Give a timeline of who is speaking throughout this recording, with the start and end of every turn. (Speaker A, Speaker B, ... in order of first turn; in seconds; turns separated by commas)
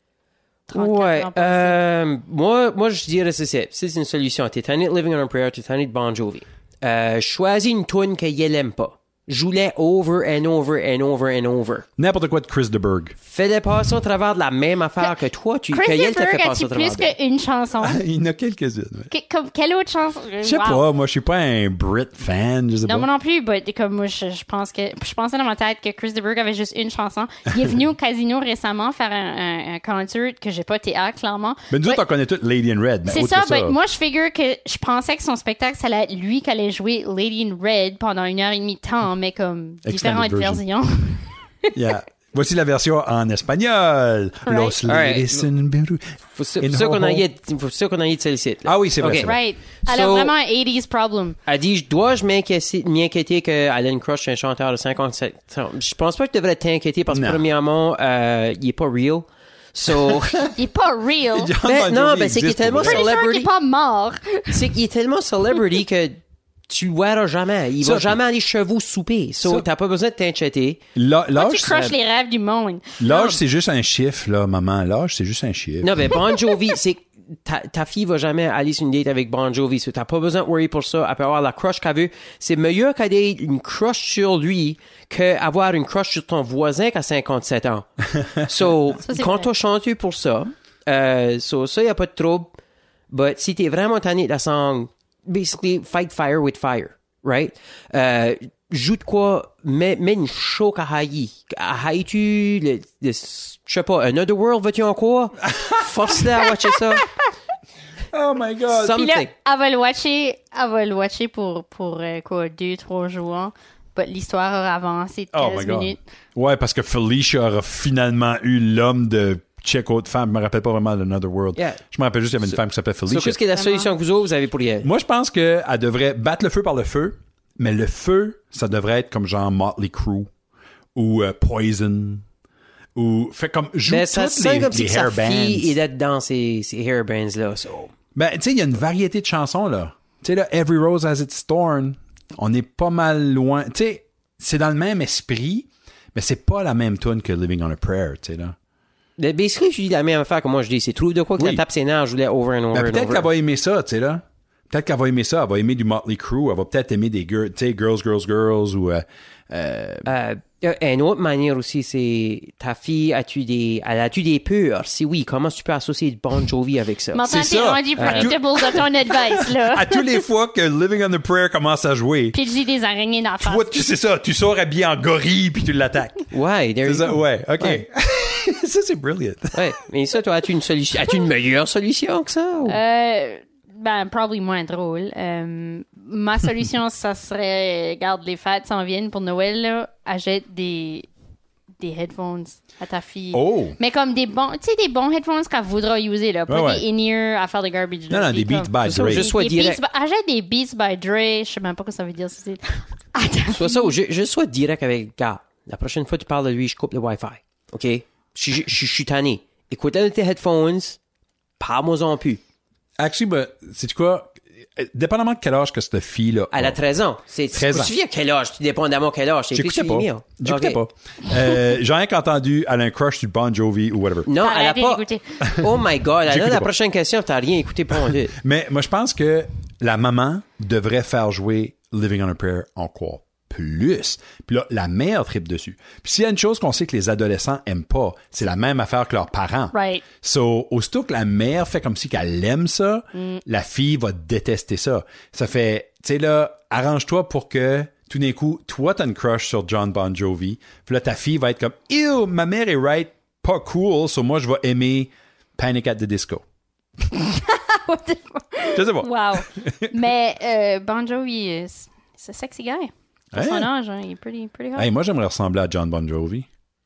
Speaker A: 0.7-1.8, Speaker B: 0.7-11.9, Speaker C: 12.0-13.2, Speaker B: 13.2-17.1, Speaker A: 15.7-18.0, Speaker C: 17.8-19.1, Speaker A: 19.1-20.8, Speaker C: 20.4-23.1, Speaker A: 22.9-32.0, Speaker C: 31.7-33.8, Speaker A: 33.1-41.7, Speaker C: 39.9-40.6, Speaker C: 41.7-47.2, Speaker A: 44.5-44.8, Speaker B: 44.9-45.5, Speaker B: 46.4-49.3, Speaker C: 48.6-49.4, Speaker A: 49.1-51.4, Speaker B: 49.9-50.3, Speaker B: 51.5-60.5, Speaker C: 57.1-57.5, Speaker C: 60.1-60.5, Speaker A: 60.5-61.5, Speaker C: 61.4-63.1, Speaker B: 61.6-63.5, Speaker A: 62.8-64.7, Speaker B: 64.5-70.8, Speaker C: 67.8-68.2, Speaker C: 71.0-71.9, Speaker A: 71.3-73.4, Speaker C: 73.0-76.1, Speaker B: 75.8-92.5, Speaker A: 89.0-89.5, Speaker B: 93.1-107.1, Speaker C: 105.5-105.8, Speaker C: 108.1-109.0, Speaker B: 108.7-109.3, Speaker A: 109.0-116.0, Speaker C: 115.3-123.4, Speaker B: 121.6-121.8, Speaker B: 123.1-124.9, Speaker A: 123.5-123.9, Speaker C: 124.8-130.3, Speaker C: 130.9-132.2, Speaker C: 132.9-135.8, Speaker B: 133.9-137.9, Speaker C: 138.2-148.6, Speaker B: 149.2-153.3, Speaker C: 151.4-151.6, Speaker C: 152.7-160.1, Speaker B: 160.1-167.2, Speaker A: 167.1-170.2, Speaker C: 167.3-172.4, Speaker B: 168.0-168.3, Speaker A: 172.3-173.7, Speaker C: 173.4-176.2, Speaker B: 176.3-177.8, Speaker C: 176.8-179.7, Speaker B: 179.5-182.8, Speaker A: 182.7-191.1, Speaker A: 191.8-203.9, Speaker C: 193.3-193.8, Speaker C: 196.5-196.8, Speaker C: 198.1-199.3, Speaker B: 198.8-199.8, Speaker B: 203.5-211.0, Speaker B: 211.6-212.4, Speaker C: 213.0-216.8, Speaker B: 216.5-220.8, Speaker C: 217.5-217.9, Speaker C: 219.5-224.3, Speaker B: 224.3-228.3, Speaker A: 224.4-225.4, Speaker C: 225.4-225.7, Speaker C: 226.3-226.7, Speaker C: 228.0-256.4, Speaker A: 239.7-240.0, Speaker A: 243.2-243.4, Speaker A: 257.1-264.9, Speaker C: 258.7-259.9, Speaker C: 263.3-263.7, Speaker C: 264.8-266.5